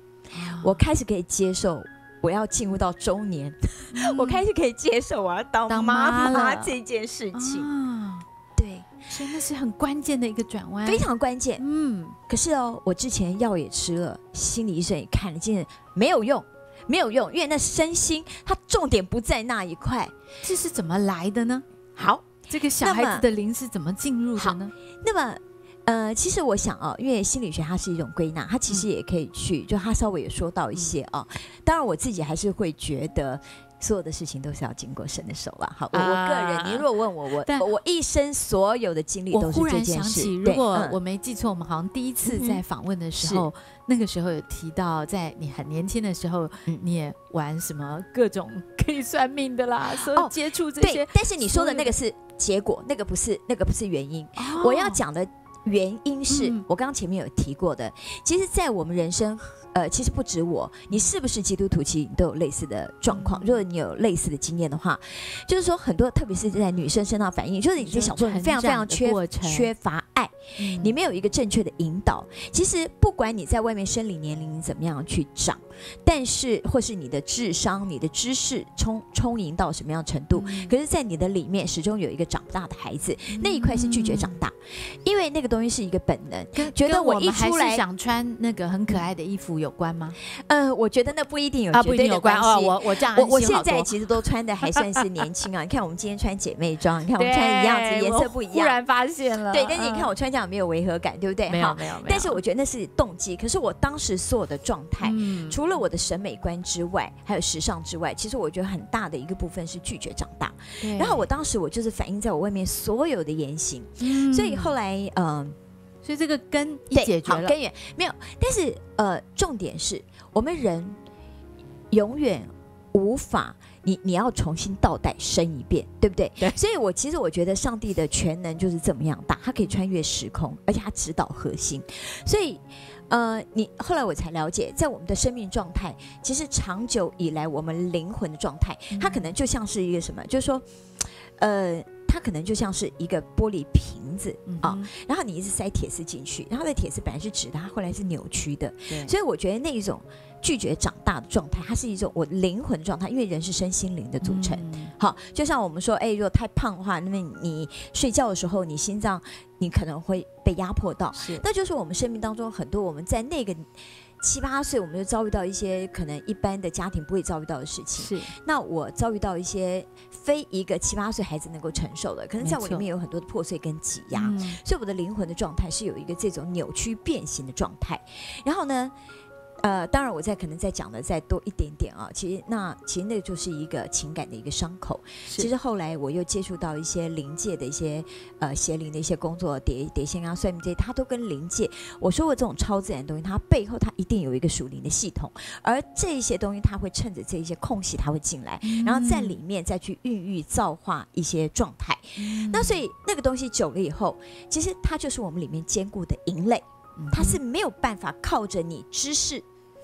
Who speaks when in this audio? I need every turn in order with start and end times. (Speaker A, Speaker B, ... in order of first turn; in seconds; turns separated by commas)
Speaker A: 0.3-0.8, Speaker B: 0.6-7.7, Speaker A: 3.9-4.4, Speaker A: 5.7-6.7, Speaker A: 7.3-8.2, Speaker B: 8.6-9.1, Speaker A: 9.1-11.1, Speaker B: 10.8-11.6, Speaker A: 11.6-12.2, Speaker B: 12.3-20.1, Speaker A: 20.4-21.6, Speaker B: 21.9-23.2, Speaker A: 22.5-24.7, Speaker B: 24.4-41.0, Speaker A: 35.9-37.7, Speaker A: 39.3-51.9, Speaker B: 42.2-42.6, Speaker B: 43.2-43.5, Speaker B: 49.9-87.8, Speaker A: 54.4-55.0, Speaker A: 56.3-56.6, Speaker A: 63.1-63.6, Speaker A: 67.8-69.7, Speaker A: 70.6-70.9, Speaker A: 80.3-80.7, Speaker A: 83.3-84.4, Speaker A: 86.5-90.2, Speaker B: 90.2-98.8, Speaker A: 91.7-93.9, Speaker A: 94.7-95.0, Speaker A: 97.2-100.1, Speaker B: 99.5-115.6, Speaker A: 101.5-102.4, Speaker A: 105.0-105.6, Speaker A: 110.8-111.3, Speaker A: 114.0-114.7, Speaker A: 116.0-117.5, Speaker B: 116.9-121.0, Speaker B: 121.9-178.9, Speaker A: 138.9-139.3, Speaker A: 144.4-144.9, Speaker A: 154.2-154.9, Speaker A: 161.1-161.4, Speaker A: 168.0-168.3, Speaker A: 172.4-172.8, Speaker A: 174.1-174.6, Speaker B: 179.6-209.4, Speaker A: 185.2-185.5, Speaker A: 198.6-199.4, Speaker A: 202.2-202.8, Speaker A: 207.0-207.4